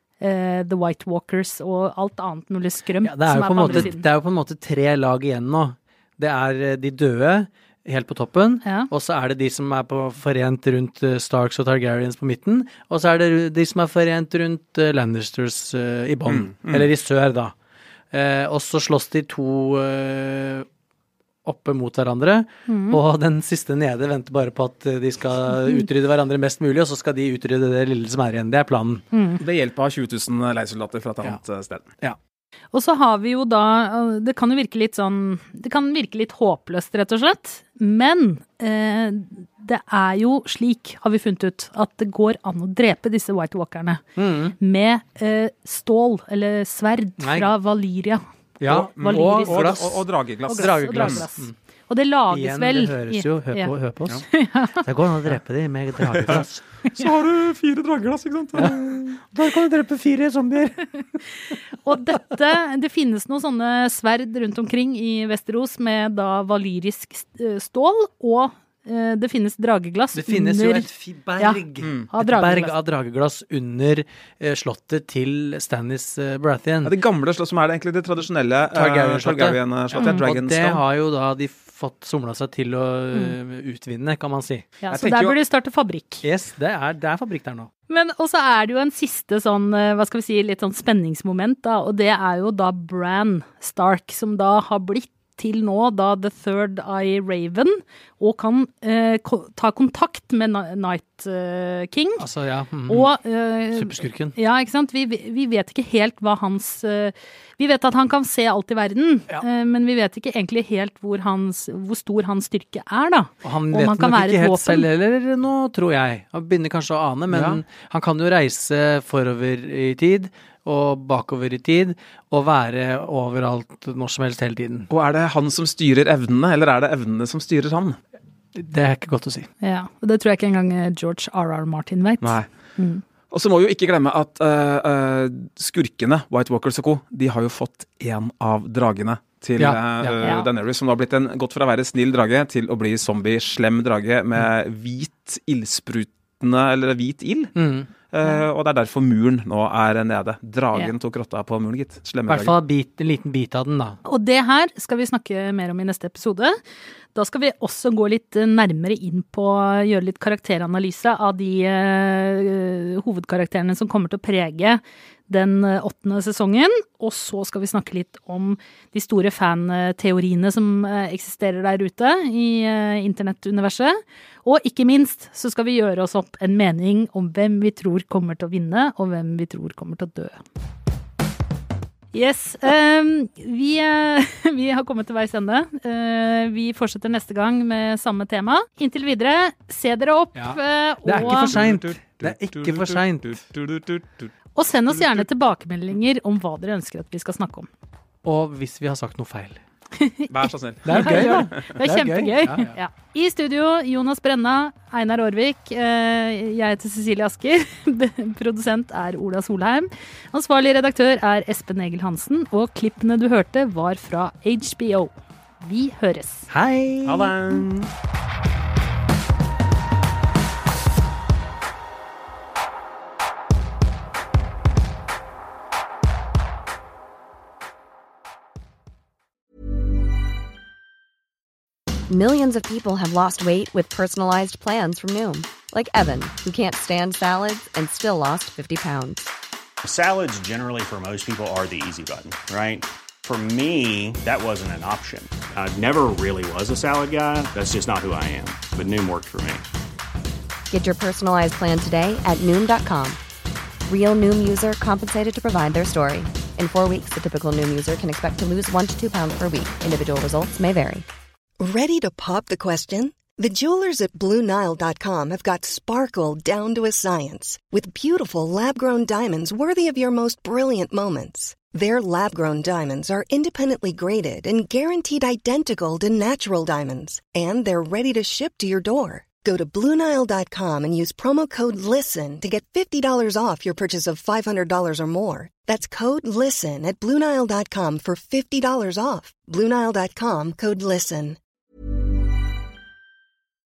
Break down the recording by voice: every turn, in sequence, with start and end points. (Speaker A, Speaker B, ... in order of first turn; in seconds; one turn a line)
Speaker A: 0.2-4.0
Speaker B: 3.0-17.5
Speaker A: 8.6-8.9
Speaker C: 16.3-16.9
Speaker B: 18.1-20.7
Speaker B: 21.4-29.1
Speaker A: 22.7-23.0
Speaker A: 29.1-29.4
Speaker C: 29.4-31.9
Speaker A: 32.7-44.0
Speaker B: 44.2-44.6
Speaker A: 44.6-48.2
Speaker B: 47.2-47.5
Speaker B: 48.6-51.5
Speaker C: 48.7-51.2
Speaker A: 49.0-49.8
Speaker A: 50.5-53.7
Speaker B: 52.3-56.6
Speaker A: 54.3-54.8
Speaker C: 56.1-59.1
Speaker B: 58.6-61.2
Speaker A: 61.5-70.9
Speaker B: 70.2-77.0
Speaker A: 71.4-72.7
Speaker C: 71.8-72.1
Speaker C: 76.8-80.8
Speaker B: 78.7-84.7
Speaker A: 80.0-80.3
Speaker A: 84.8-86.2
Speaker C: 84.9-85.4
Speaker B: 86.2-87.7
Speaker A: 87.9-102.3
Speaker B: 102.2-103.1
Speaker A: 102.9-114.9
Speaker B: 103.7-104.4
Speaker B: 113.4-124.9
Speaker C: 117.3-117.6
Speaker C: 124.9-128.0
Speaker B: 128.5-129.5
Speaker A: 129.6-133.0
Speaker C: 132.2-132.5
Speaker C: 133.3-147.6
Speaker B: 139.6-140.3
Speaker B: 147.6-147.9
Speaker C: 148.1-152.6
Speaker B: 152.3-154.0
Speaker A: 154.1-156.6
Speaker A: 157.2-180.4
Speaker A: 182.1-191.5
Speaker B: 190.3-193.4
Speaker C: 191.2-194.3
Speaker A: 194.6-197.7
Speaker B: 198.2-199.6
Speaker A: 199.9-200.3
Speaker C: 200.3-201.7
Speaker B: 200.8-202.8
Speaker A: 200.9-216.5
Speaker B: 216.5-217.6
Speaker C: 217.1-217.9
Speaker D: 232.1-239.3
Speaker E: 239.8-249.6
Speaker D: 250.7-253.2
Speaker D: 253.9-261.1
Speaker F: 261.6-291.4